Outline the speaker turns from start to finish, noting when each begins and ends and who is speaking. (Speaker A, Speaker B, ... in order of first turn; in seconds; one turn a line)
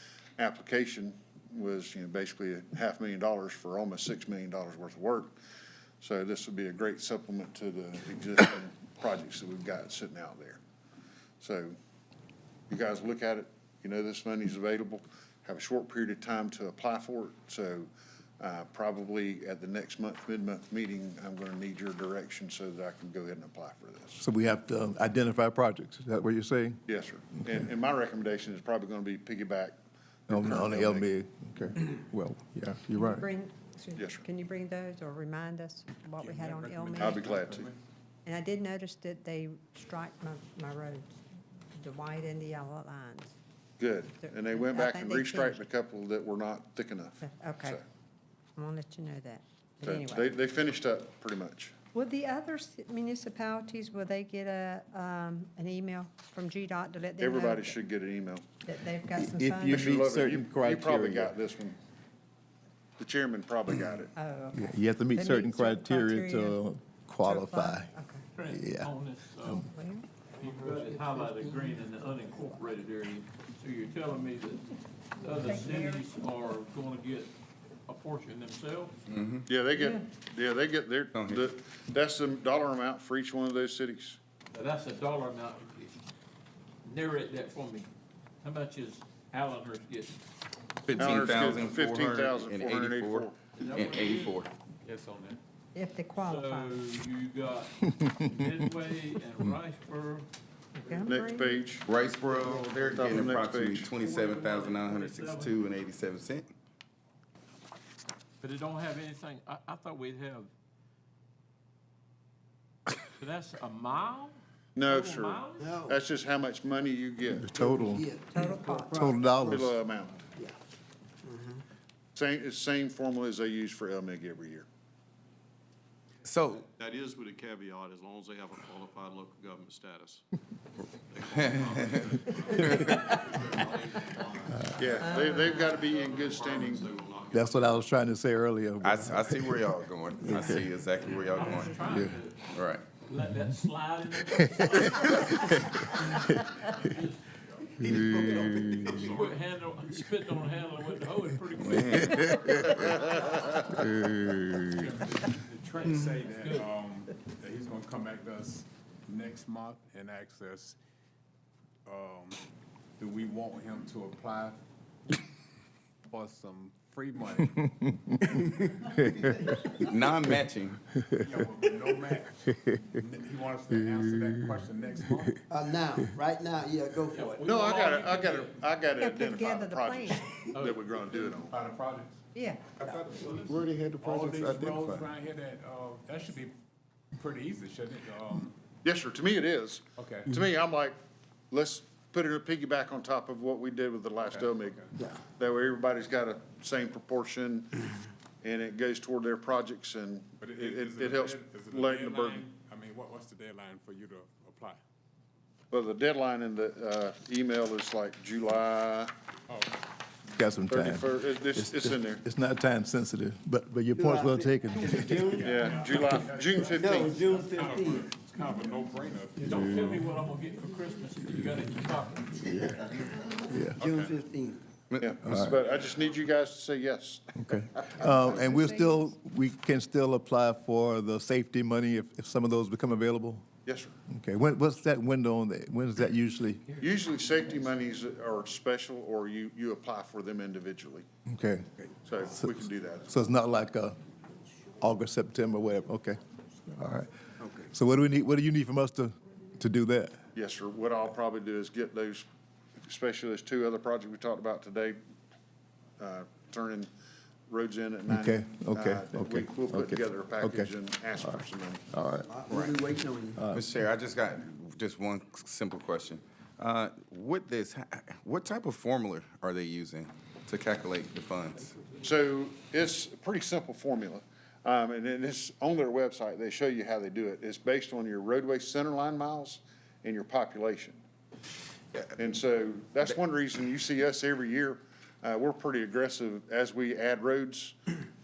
Speaker A: 0.4-5.4
Speaker A: 6.0-10.6
Speaker A: 11.4-11.8
Speaker A: 12.7-24.2
Speaker B: 24.2-26.8
Speaker A: 26.9-29.8
Speaker A: 30.3-31.1
Speaker B: 30.3-33.3
Speaker C: 33.0-37.4
Speaker A: 34.0-34.2
Speaker D: 36.2-37.8
Speaker A: 37.0-37.7
Speaker C: 38.2-41.2
Speaker C: 41.8-43.4
Speaker A: 43.8-47.8
Speaker C: 44.2-45.6
Speaker C: 47.2-47.8
Speaker C: 48.6-50.3
Speaker A: 49.8-51.7
Speaker C: 51.9-57.8
Speaker A: 57.2-58.5
Speaker C: 58.6-59.9
Speaker B: 59.1-61.3
Speaker A: 59.7-61.8
Speaker A: 63.0-64.1
Speaker C: 64.2-66.6
Speaker B: 64.5-67.9
Speaker C: 67.2-68.2
Speaker E: 68.3-69.7
Speaker B: 68.5-69.7
Speaker C: 69.7-70.1
Speaker E: 70.4-77.3
Speaker F: 70.5-71.8
Speaker C: 75.3-76.0
Speaker E: 77.9-78.9
Speaker G: 79.1-79.5
Speaker A: 79.5-84.2
Speaker C: 79.8-80.0
Speaker G: 81.1-81.4
Speaker E: 84.5-86.0
Speaker E: 86.8-87.9
Speaker E: 88.4-90.2
Speaker G: 90.9-94.5
Speaker A: 91.0-93.4
Speaker E: 93.6-95.3
Speaker D: 94.9-95.3
Speaker C: 95.7-96.8
Speaker E: 96.2-100.3
Speaker B: 97.9-98.3
Speaker C: 100.8-101.5
Speaker A: 101.0-101.9
Speaker G: 101.8-106.5
Speaker A: 103.0-103.9
Speaker E: 104.0-105.6
Speaker E: 108.4-110.5
Speaker E: 113.1-115.8
Speaker A: 114.8-117.5
Speaker F: 115.6-116.0
Speaker B: 117.3-118.1
Speaker F: 117.5-119.8
Speaker C: 118.3-119.1
Speaker B: 118.9-119.7
Speaker A: 119.4-120.2
Speaker F: 121.2-121.6
Speaker A: 122.2-124.7
Speaker G: 126.2-126.7
Speaker H: 126.8-130.1
Speaker H: 131.1-135.3
Speaker G: 131.3-133.2
Speaker A: 134.8-136.9
Speaker C: 134.9-135.8
Speaker H: 135.8-137.7
Speaker B: 137.3-139.6
Speaker G: 138.8-141.9
Speaker B: 140.2-140.6
Speaker E: 141.1-142.4
Speaker B: 141.8-142.2
Speaker G: 142.4-142.8
Speaker E: 143.0-147.3
Speaker G: 145.0-145.4
Speaker F: 147.8-149.0
Speaker G: 147.8-149.2
Speaker E: 148.9-153.7
Speaker H: 149.0-149.3
Speaker G: 151.6-154.9
Speaker E: 154.7-155.1
Speaker D: 154.9-160.8
Speaker E: 155.9-156.7
Speaker D: 161.9-162.4
Speaker D: 163.0-164.6
Speaker D: 166.1-168.2
Speaker B: 167.6-167.9
Speaker B: 169.0-169.6
Speaker G: 169.8-171.0
Speaker B: 170.9-171.4
Speaker D: 171.1-175.4
Speaker B: 172.5-172.8
Speaker F: 175.5-177.4
Speaker E: 177.1-178.6
Speaker A: 177.4-181.5
Speaker C: 179.0-180.4
Speaker E: 180.5-180.8
Speaker D: 181.1-182.2
Speaker C: 182.3-182.7
Speaker G: 182.8-185.1
Speaker D: 183.2-186.6
Speaker D: 187.2-188.6
Speaker A: 188.8-191.0
Speaker D: 190.0-190.3
Speaker A: 191.5-197.9
Speaker D: 194.3-194.9
Speaker A: 198.4-202.5
Speaker D: 200.4-204.8
Speaker A: 205.7-209.1
Speaker D: 209.5-209.8
Speaker B: 210.3-215.4
Speaker A: 210.7-212.2
Speaker F: 213.9-215.5
Speaker D: 215.3-220.1
Speaker A: 215.4-217.3
Speaker F: 216.8-218.1
Speaker E: 219.4-222.9
Speaker B: 219.6-219.9
Speaker B: 223.5-223.8
Speaker D: 223.8-224.2
Speaker F: 223.8-224.6
Speaker G: 224.9-225.8
Speaker A: 225.0-227.8
Speaker B: 225.2-225.6
Speaker B: 227.5-233.5
Speaker C: 228.0-229.1
Speaker A: 233.7-233.9
Speaker B: 234.1-236.8
Speaker A: 236.8-241.1
Speaker B: 241.3-241.7
Speaker A: 242.0-243.2
Speaker B: 242.4-244.0
Speaker B: 244.8-247.1
Speaker F: 247.4-247.7
Speaker B: 247.7-250.2
Speaker A: 250.3-252.2
Speaker A: 252.8-255.0
Speaker A: 256.0-256.9
Speaker A: 257.5-261.9
Speaker B: 258.1-262.3
Speaker F: 262.3-263.4
Speaker G: 262.5-262.8
Speaker B: 263.4-263.6
Speaker G: 263.5-271.8
Speaker A: 271.9-281.0
Speaker A: 282.2-287.8